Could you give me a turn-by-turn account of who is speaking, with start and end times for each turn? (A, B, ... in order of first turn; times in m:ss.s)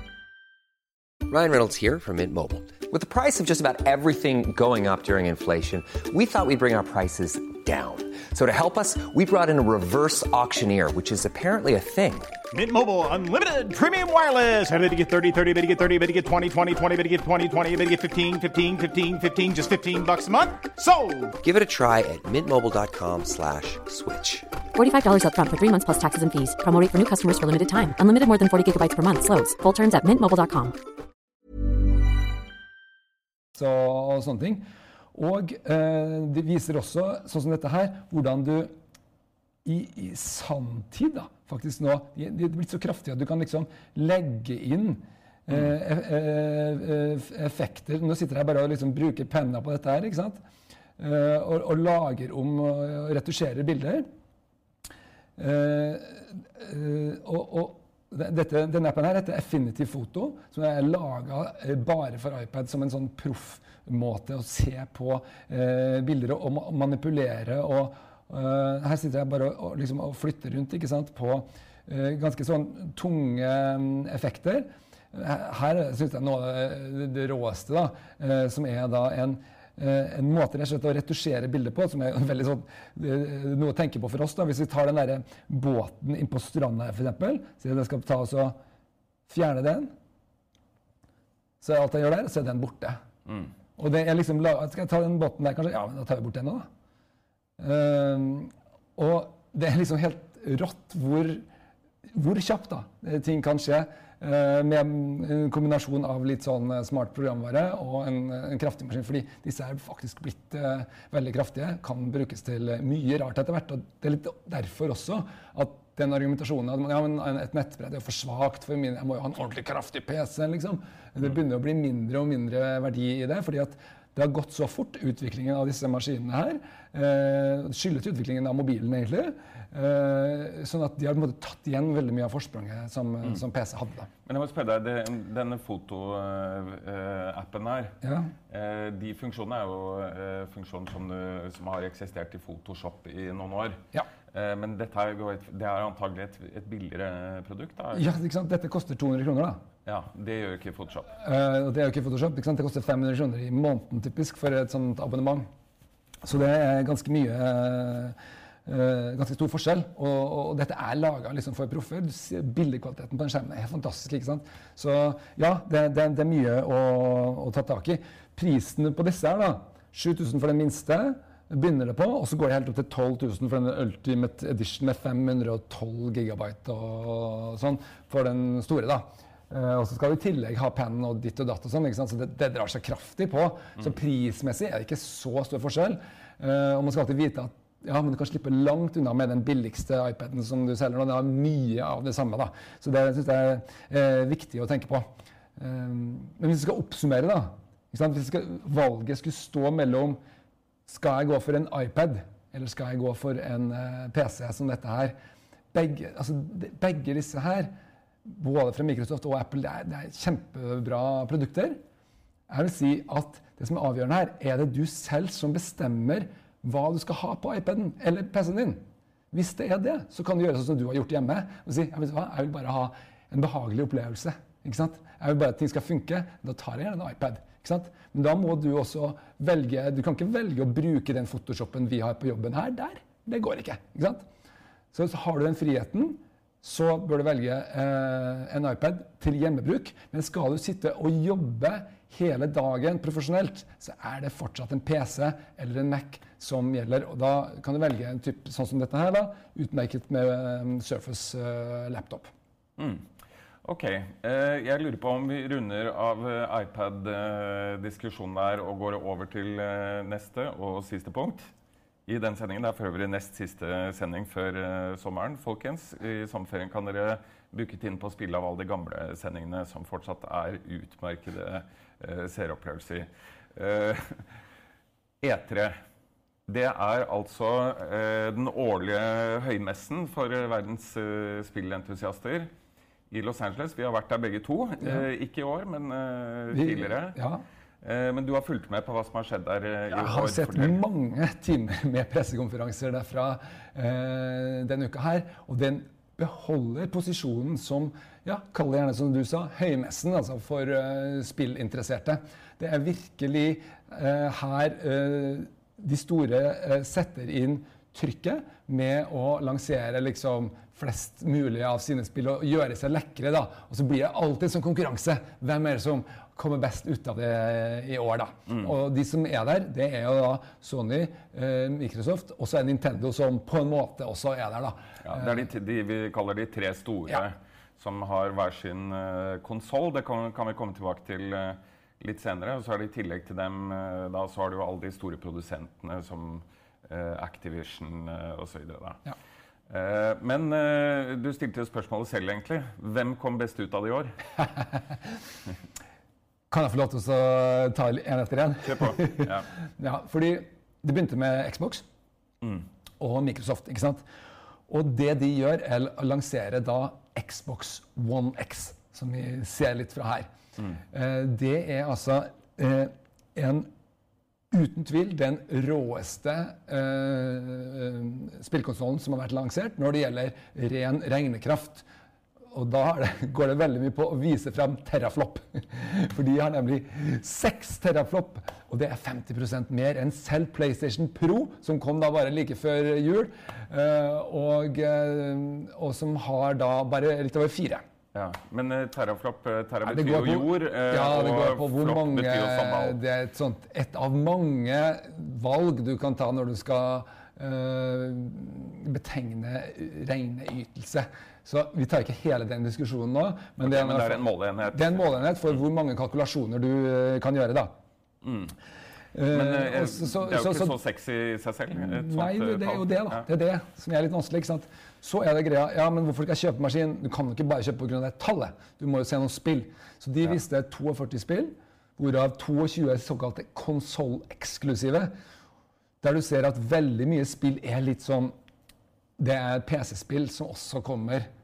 0:01.3-0:12.3 A
0:12.5-0:21.4 B
0:21.4-0:24.5 A
0:24.8-0:30.8 C
0:33.6-0:38.7 D
0:39.6-0:50.4 D
0:51.0-0:54.1 D
0:55.4-1:28.6 D
1:29.3-1:29.9 D
1:31.6-1:33.0 D
1:33.8-1:36.7 D
1:37.6-1:41.4 D
1:42.1-2:14.1 D
2:14.3-2:18.0 E
2:18.0-2:18.3 D
2:18.5-2:23.8 E
2:24.3-2:28.1 E
2:27.9-2:29.6 D
2:29.9-2:31.1 E
2:31.1-2:35.5 D
2:36.2-3:20.2 D
3:20.9-3:25.2 D
3:25.7-3:27.7 D
3:28.3-3:31.8 D
3:32.5-3:54.3 D
3:54.9-4:12.3 D
4:12.8-4:13.1 E
4:13.6-4:21.5 E
4:22.1-4:34.2 E
4:35.2-4:35.8 E
4:36.5-4:42.5 E
4:43.1-4:47.2 E
4:46.5-4:47.4 D
4:47.8-4:50.8 E
4:49.9-5:25.4 D
5:25.0-5:39.0 E
5:39.7-5:44.2 E
5:46.5-5:51.8 D
5:48.6-5:49.5 E
5:53.0-5:54.0 D
5:54.7-6:00.3 D
6:00.8-6:03.7 D
6:04.5-6:11.9 D
6:12.5-6:27.8 D
6:28.1-6:33.0 E
6:29.8-6:47.7 D
6:43.6-6:45.5 E
6:48.2-6:48.5 E
6:49.1-6:50.8 D
6:49.3-6:53.3 E
6:51.7-7:05.1 D
7:06.0-7:08.3 D
7:09.2-7:11.3 D